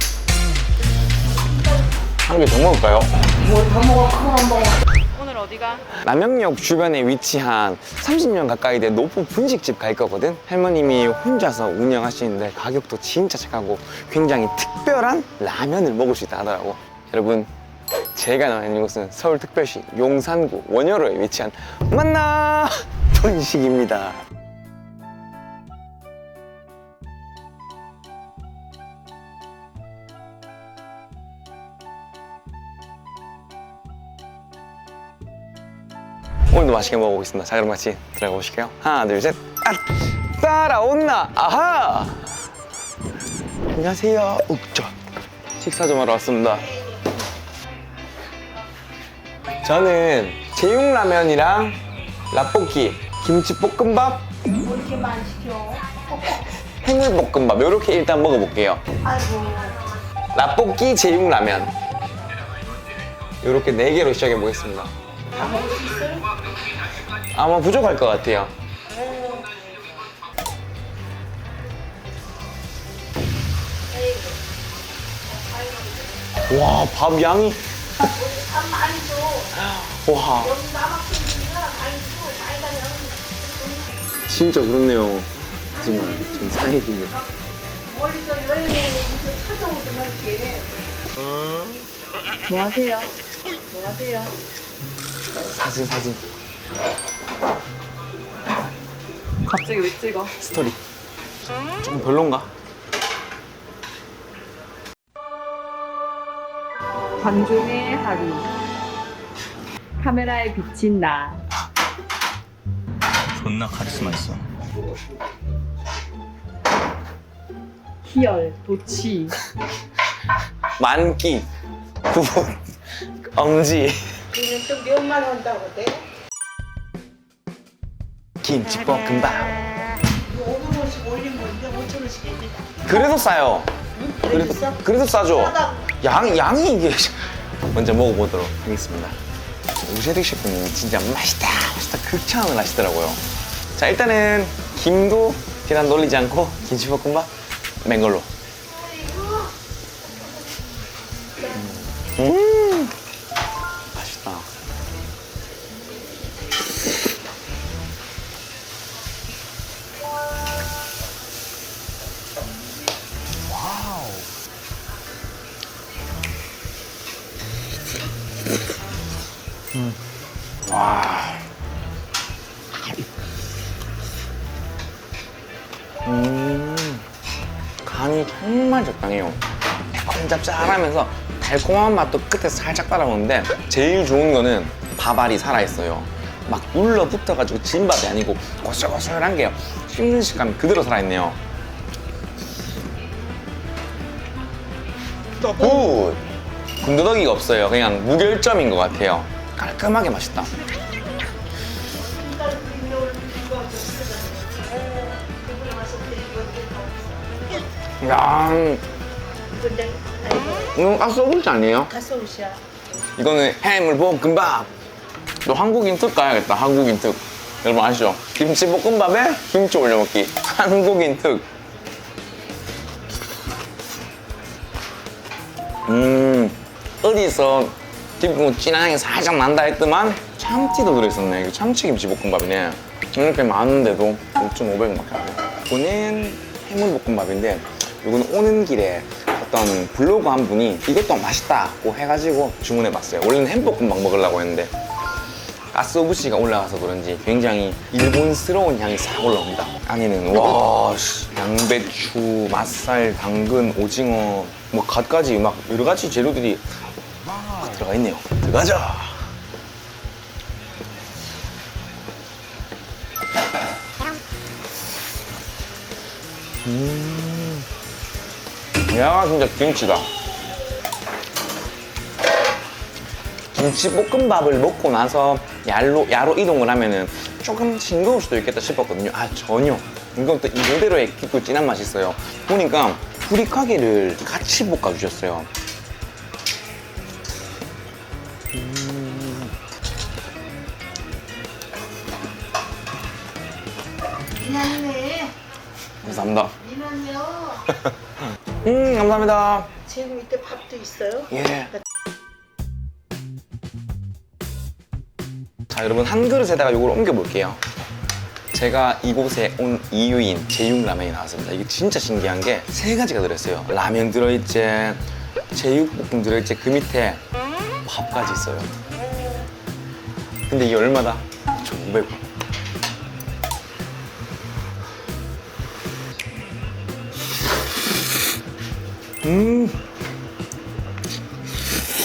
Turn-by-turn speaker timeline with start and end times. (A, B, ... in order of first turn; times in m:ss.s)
0:01.3-0:02.0 A
0:02.2-0:03.1 B
0:03.4-0:04.8 A
0:05.2-0:05.9 C
0:05.9-0:17.5 B
0:18.1-0:24.3 B
0:36.5-0:42.4 B
0:43.7-0:44.9 B
0:45.6-0:46.7 B
0:49.6-0:51.8 B
0:52.3-0:54.3 B
0:54.6-0:56.4 A
0:56.8-0:58.8 B
0:59.0-0:59.8 A
1:00.3-1:01.7 B
1:03.4-1:04.9 B
1:05.3-1:06.3 A
1:07.3-1:08.5 B
1:13.9-1:14.4 A
1:15.3-1:16.3 A
1:16.5-1:17.6 B
1:18.0-1:19.5 A
1:19.6-1:20.6 B
1:20.4-1:23.9 A
1:24.3-1:27.2 B
1:25.8-1:26.6 A
1:27.8-1:30.7 A
1:32.5-1:33.1 C
1:33.7-1:34.3 A
1:35.4-1:36.2 B
1:39.4-1:40.3 C
1:40.3-1:40.8 B
1:41.8-1:42.5 B
1:47.2-1:48.5 C
1:50.0-1:51.4 C
1:53.3-1:54.4 B
1:58.1-1:59.4 C
2:00.8-2:01.5 B
2:02.1-2:04.2 B
2:04.3-2:06.0 A
2:08.4-2:09.7 B
2:10.2-2:12.8 A
2:12.8-2:13.7 B
2:13.9-2:15.9 A
2:14.3-2:19.2 B
2:19.8-2:23.2 B
2:23.8-2:27.3 B
2:27.8-2:28.3 B
2:28.7-2:29.5 A
2:31.5-2:33.0 B
2:33.9-2:34.5 B
2:43.5-2:44.2 B
2:50.7-2:51.4 B
2:56.0-2:57.1 B
2:57.8-2:59.4 B
3:00.0-3:11.4 B
3:15.4-3:16.2 B
3:16.8-3:20.5 B
3:21.9-3:27.4 A
3:28.0-3:28.8 B
3:29.5-3:30.8 A
3:30.8-3:31.9 B
3:31.9-3:32.6 A
3:33.2-3:34.7 B
3:35.4-3:41.5 B
3:45.9-4:04.7 B
4:05.7-4:16.6 B
4:17.4-4:19.3 B
4:26.6-4:27.7 B
4:28.9-4:30.1 B
4:33.5-4:45.5 B
4:48.5-4:49.5 B
4:54.4-4:55.3 A
4:56.0-4:56.6 B
4:56.6-4:57.7 A
4:58.6-4:59.7 B
4:59.8-5:01.3 A
5:01.3-5:01.7 B
5:05.7-5:07.6 B
5:08.5-5:17.2 B
5:17.8-5:18.7 B
5:20.5-5:22.2 B
5:29.2-5:29.8 B